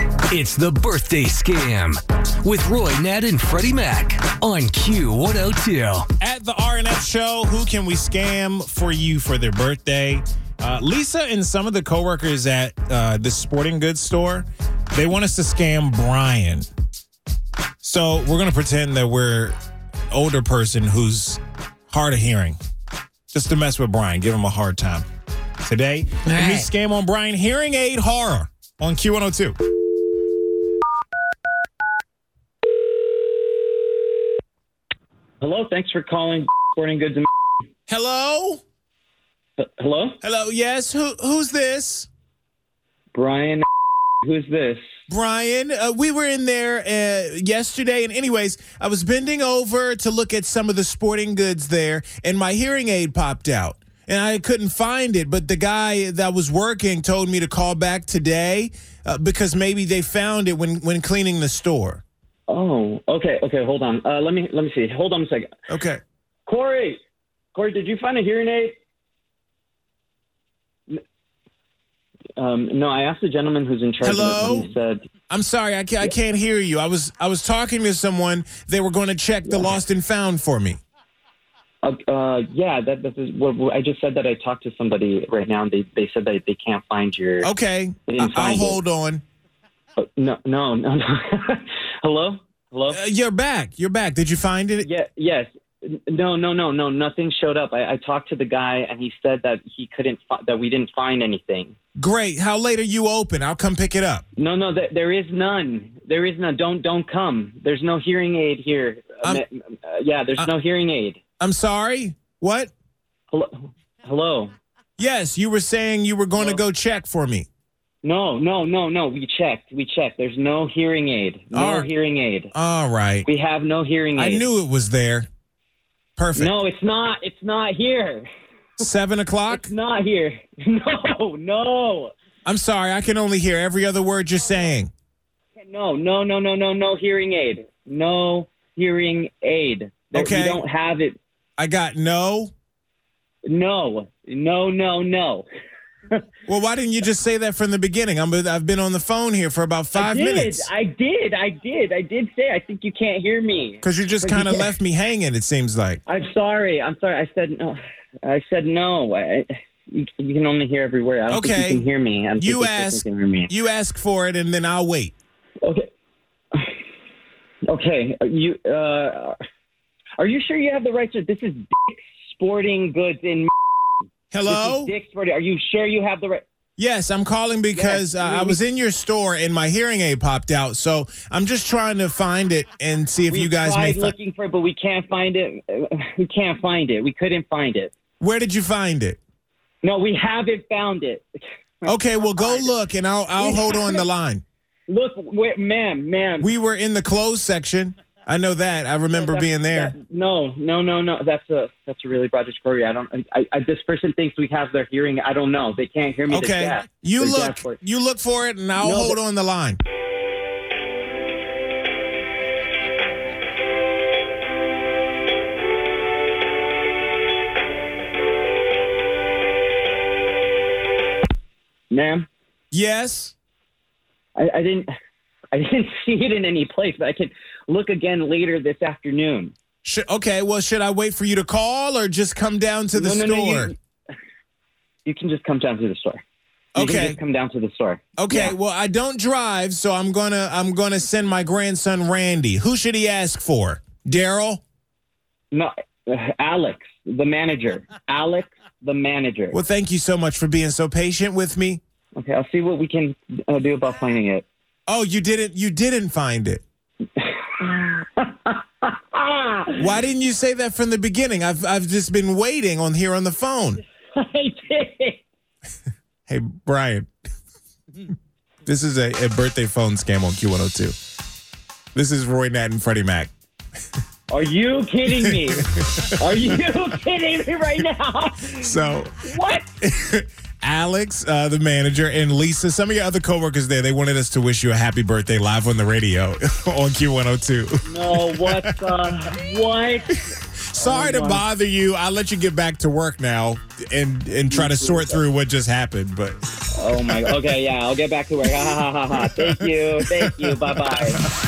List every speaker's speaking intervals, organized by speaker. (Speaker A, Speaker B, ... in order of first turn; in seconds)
Speaker A: 0.3-6.1, 26.3-26.6
Speaker B: 6.2-16.7, 17.8-19.6, 20.1-22.6, 23.3-25.1, 25.6-29.6, 37.9-38.6, 40.2-42.1, 45.1-62.0, 65.7-66.0, 74.0-74.7, 75.3-80.8, 87.4-89.2, 92.9-94.9, 102.0-104.2, 111.4-112.7, 115.0-117.5, 121.5-121.9, 122.5-123.3, 124.2-125.3, 126.2-126.5, 128.8-129.7, 132.5-134.9, 140.1-140.6, 141.6-142.5, 146.5-150.7, 153.8-156.0, 161.3-161.8, 162.4-165.1, 174.3-174.9, 176.8-184.1, 188.2-189.2, 191.9-194.4, 196.4-199.9, 206.3-209.8, 222.7-223.3, 229.8-233.7, 236.8-237.2, 238.2-244.6, 249.5-251.8, 254.9-256.6, 259.8-263.8, 266.3-267.1, 268.6-270.9, 271.9-273.3, 278.6-279.3, 279.8-288.7, 290.7-296.4, 299.2-299.5
Speaker C: 35.4-37.3, 39.6-40.2, 43.1-43.7, 44.2-44.8, 62.5-65.5, 66.5-67.0, 67.5-68.8, 72.4-75.0, 79.5-79.8, 81.8-87.5, 88.1-88.8, 90.0-93.0, 94.8-101.8, 104.4-111.2, 113.3-114.5, 116.4-116.6, 118.0-122.5, 123.2-124.5, 126.4-128.3, 129.5-132.1, 135.6-141.2, 143.5-145.4, 149.9-154.8, 156.1-163.5, 165.6-165.9, 167.7-169.4, 170.2-173.5, 174.4-176.4, 177.7-178.6, 183.3-187.9, 189.8-191.3, 191.9-192.7, 193.4-194.1, 194.9-196.5, 199.1-207.8, 208.8-209.2, 221.9-222.3, 224.4-224.9, 225.5-229.5, 232.9-233.8, 235.1-236.2, 236.8-238.6, 245.5-249.6, 252.2-254.5, 257.2-259.8, 264.1-265.2, 274.3-279.7, 287.9-290.2, 290.8-291.5, 294.5-295.2, 296.7-301.2